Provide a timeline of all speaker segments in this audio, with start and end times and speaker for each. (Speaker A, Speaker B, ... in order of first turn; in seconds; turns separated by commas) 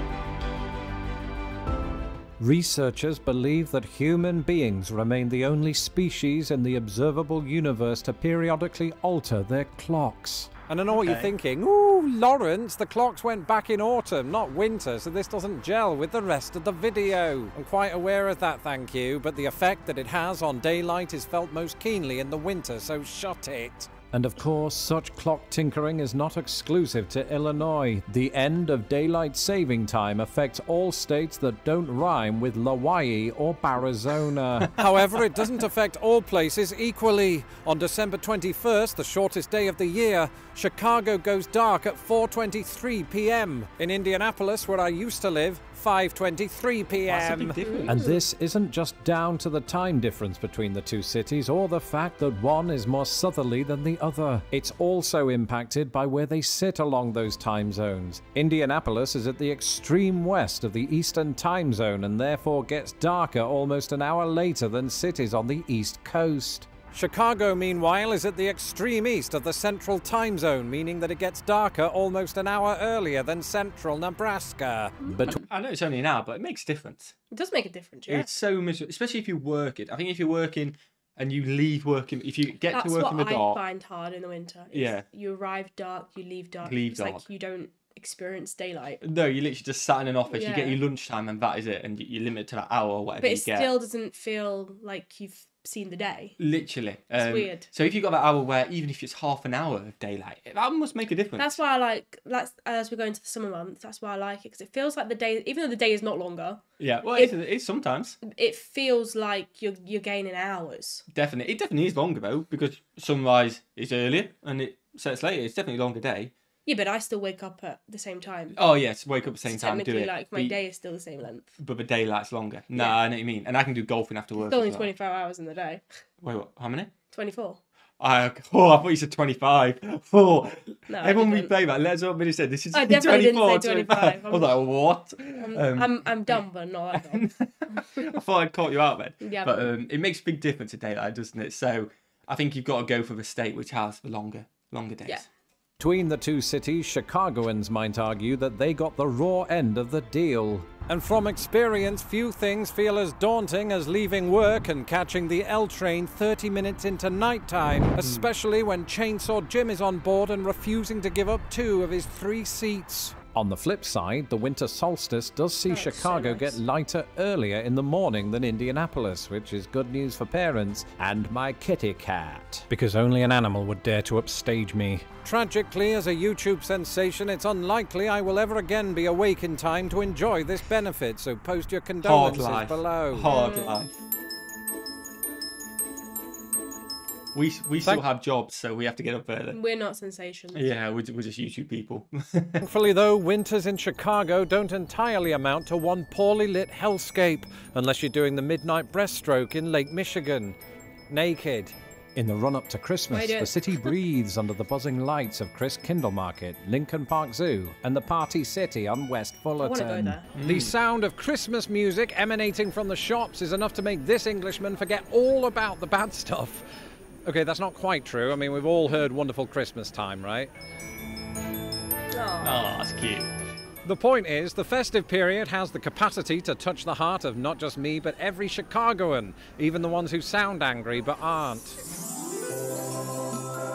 Speaker A: 2.4-75.4, Speaker B: 10.9-11.3, Speaker B: 47.0-48.0, Speaker C: 47.6-48.2, Speaker C: 75.0-75.3, Speaker B: 75.3-77.1, Speaker C: 77.3-78.3, Speaker B: 78.1-83.6, Speaker C: 82.7-89.0, Speaker B: 84.7-85.0, Speaker B: 86.6-87.3, Speaker B: 89.0-93.7, Speaker C: 90.3-90.8, Speaker C: 93.2-96.4, Speaker B: 96.4-101.6, Speaker C: 97.1-97.7, Speaker C: 101.4-106.6, Speaker B: 106.8-108.2, Speaker C: 108.2-111.0, Speaker B: 111.1-116.3, Speaker C: 116.7-118.6, Speaker B: 118.5-120.6, Speaker C: 119.5-121.5, Speaker B: 121.6-124.9, Speaker C: 124.4-125.8, Speaker B: 126.2-126.9, Speaker C: 127.1-127.6, Speaker B: 128.0-136.4, Speaker C: 130.9-131.5, Speaker C: 132.7-134.5, Speaker C: 135.4-138.1, Speaker B: 136.9-145.2, Speaker C: 139.2-139.7, Speaker A: 145.8-183.3, Speaker C: 165.7-166.6, Speaker B: 182.0-183.9, Speaker C: 183.3-183.8, Speaker B: 187.3-189.6, Speaker C: 189.5-190.6, Speaker B: 190.5-192.7, Speaker A: 192.6-200.6, Speaker A: 201.1-216.6, Speaker C: 203.1-203.9, Speaker C: 209.6-210.3, Speaker B: 210.3-210.7, Speaker A: 217.2-220.5, Speaker C: 222.1-222.6, Speaker B: 222.4-223.3, Speaker A: 223.8-231.8